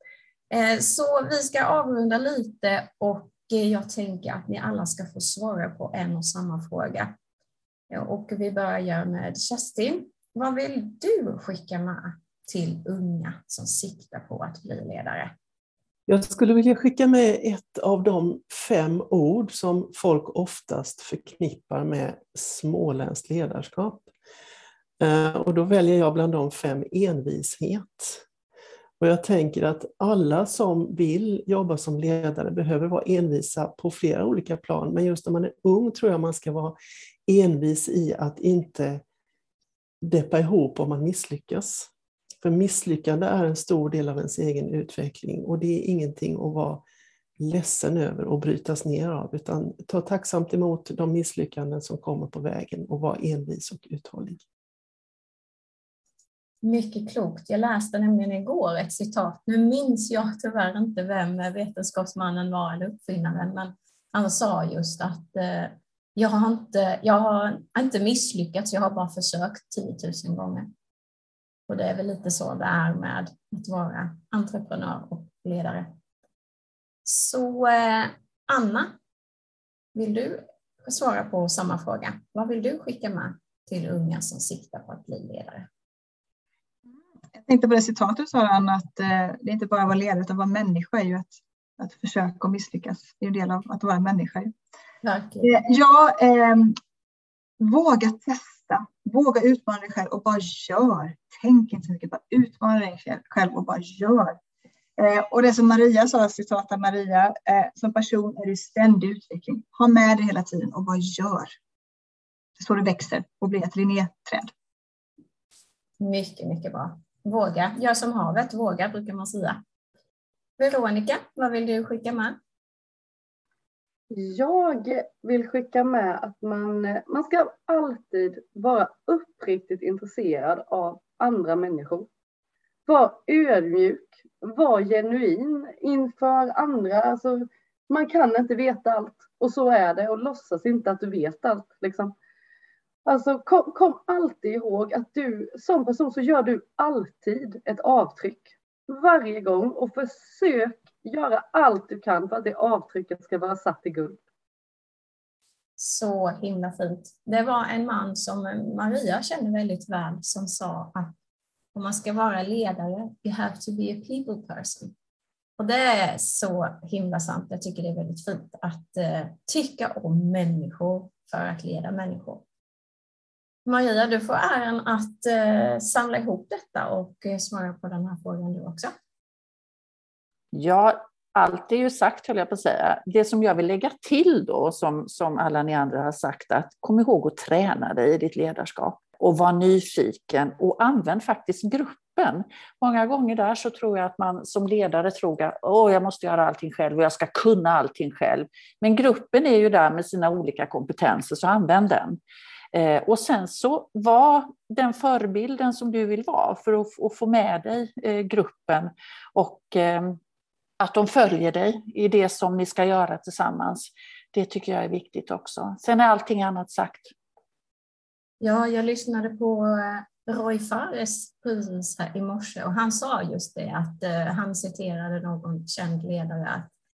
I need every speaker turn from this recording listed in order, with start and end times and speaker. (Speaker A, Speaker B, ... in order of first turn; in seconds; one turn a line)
Speaker A: 0.5-7.1
Speaker A: 7.9-15.3
Speaker B: 16.1-24.1
Speaker B: 25.0-28.2
Speaker B: 29.0-36.8
Speaker B: 37.3-39.0
Speaker B: 40.0-41.9
Speaker B: 42.4-46.8
Speaker B: 47.4-54.4
Speaker A: 56.6-70.7
Speaker A: 71.7-75.9
Speaker A: 77.0-78.9
Speaker A: 79.9-85.7
Speaker C: 87.3-94.5
Speaker A: 95.0-95.6
Speaker C: 95.4-96.8
Speaker C: 97.6-104.4
Speaker C: 105.0-111.5
Speaker C: 112.6-114.5
Speaker A: 116.0-119.6
Speaker A: 120.6-122.4
Speaker D: 124.1-132.1
Speaker D: 132.9-142.1
Speaker D: 143.1-154.2
Speaker A: 155.8-161.1
Speaker A: 161.7-164.9
Speaker A: 165.6-172.4
Speaker A: 173.7-178.9
Speaker E: 180.5-202.2
Speaker E: 202.7-210.2
Speaker E: 210.8-217.1
Speaker A: 218.4-226.7